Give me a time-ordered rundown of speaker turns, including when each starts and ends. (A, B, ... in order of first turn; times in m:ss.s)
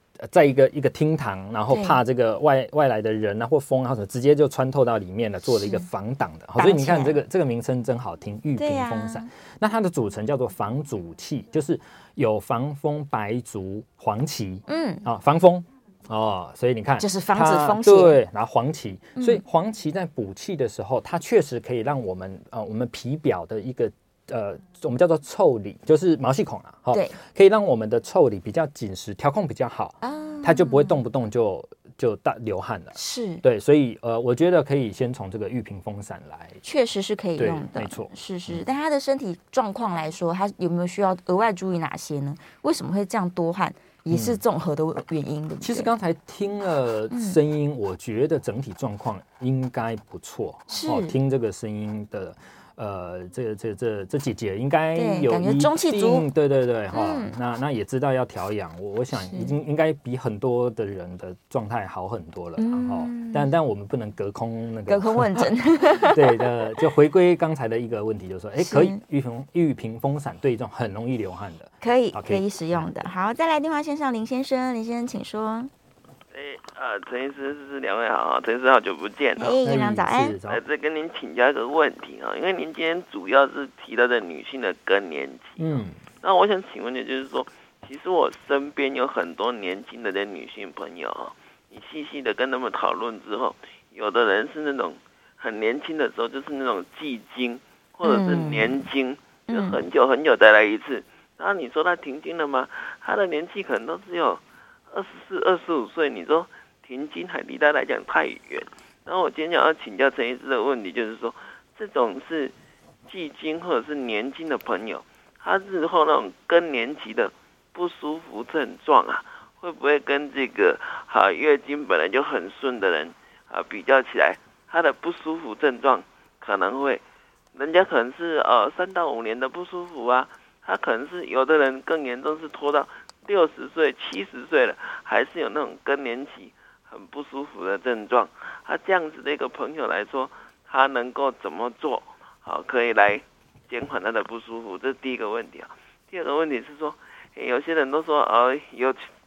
0:00.2-0:36.6 A
0:01.7-0:02.0 B
0:05.6-0:05.8 B
0:06.6-0:07.2 B
0:08.6-0:09.3 B
0:14.7-0:15.0 B
0:17.0-0:18.2 B
0:19.2-0:19.4 B
0:26.9-0:27.2 B
0:30.0-0:31.0 B
0:33.0-0:33.4 B
0:36.6-0:45.9 B
0:37.4-0:38.6 A
0:44.1-0:44.4 A
0:45.6-1:12.9 A
0:47.1-0:47.4 B
0:50.7-0:51.2 B
0:55.0-0:56.3 B
0:56.9-0:57.3 B
0:59.2-0:59.5 B
1:02.6-1:03.5 B
1:04.9-1:06.5 B
1:08.6-1:09.0 B
1:11.8-1:15.7 B
1:16.3-1:19.6 C
1:19.4-1:20.4 B
1:19.6-1:20.6 A
1:20.5-1:52.5 C
1:25.6-1:26.0 A
1:38.0-1:38.8 B
1:39.5-1:39.8 B
1:53.1-2:07.0 C
2:07.5-2:29.1 C